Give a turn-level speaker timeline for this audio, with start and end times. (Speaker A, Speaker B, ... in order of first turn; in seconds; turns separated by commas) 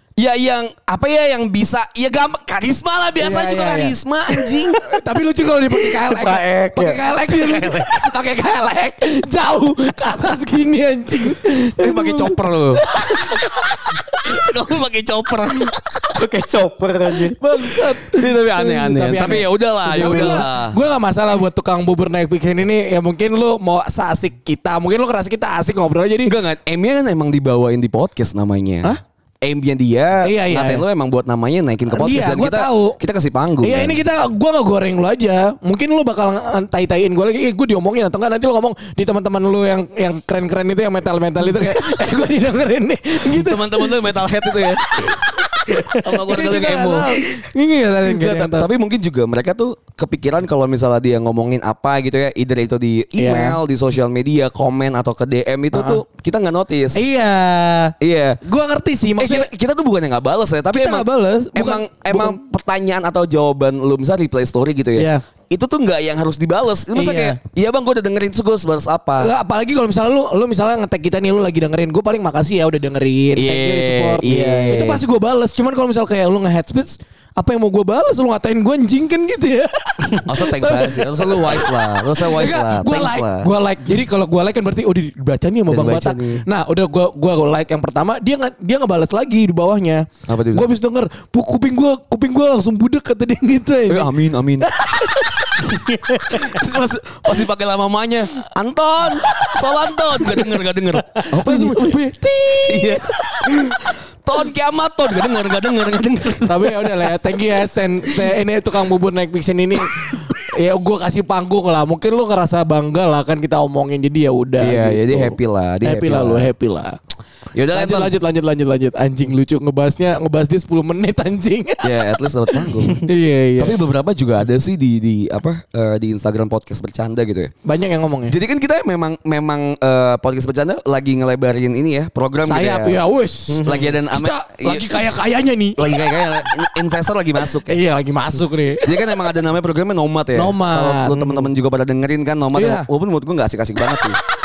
Speaker A: 0.2-4.8, Speaker B: 3.2-4.0, Speaker C: 4.5-5.0, Speaker B: 4.8-14.1, Speaker C: 5.8-7.0, Speaker A: 7.3-8.1, Speaker A: 11.8-12.8, Speaker A: 14.1-16.2, Speaker C: 16.1-17.4, Speaker B: 17.4-26.3, Speaker A: 17.9-20.8, Speaker C: 20.0-20.4, Speaker A: 26.2-34.0, Speaker B: 30.2-30.8, Speaker B: 31.9-33.0, Speaker B: 33.6-44.0, Speaker A: 41.6-41.9, Speaker A: 43.2-45.1, Speaker B: 44.6-48.7, Speaker A: 46.0-47.2, Speaker A: 48.0-57.0, Speaker B: 53.2-53.6, Speaker B: 55.7-56.0, Speaker B: 57.0-59.5, Speaker A: 58.0-58.4, Speaker A: 59.2-69.3, Speaker B: 60.7-62.4, Speaker B: 65.0-65.2, Speaker B: 66.9-67.4, Speaker B: 69.2-95.8, Speaker A: 73.3-75.0, Speaker C: 74.3-74.7, Speaker A: 80.3-83.5, Speaker A: 85.7-86.4, Speaker A: 90.3-90.7, Speaker A: 93.9-94.7, Speaker C: 95.7-96.5, Speaker A: 96.3-102.0, Speaker B: 101.3-103.8, Speaker A: 102.7-107.3, Speaker B: 106.5-117.0, Speaker A: 114.6-116.5, Speaker A: 117.5-118.1, Speaker B: 117.7-121.9, Speaker A: 121.8-123.0, Speaker B: 122.5-123.8, Speaker A: 123.6-127.5, Speaker B: 127.7-128.4, Speaker A: 128.3-133.0, Speaker B: 132.5-135.8, Speaker C: 133.5-133.9, Speaker A: 133.7-135.0, Speaker A: 135.8-137.8, Speaker B: 137.7-138.9, Speaker A: 138.8-144.2, Speaker B: 140.3-141.4, Speaker B: 142.6-142.9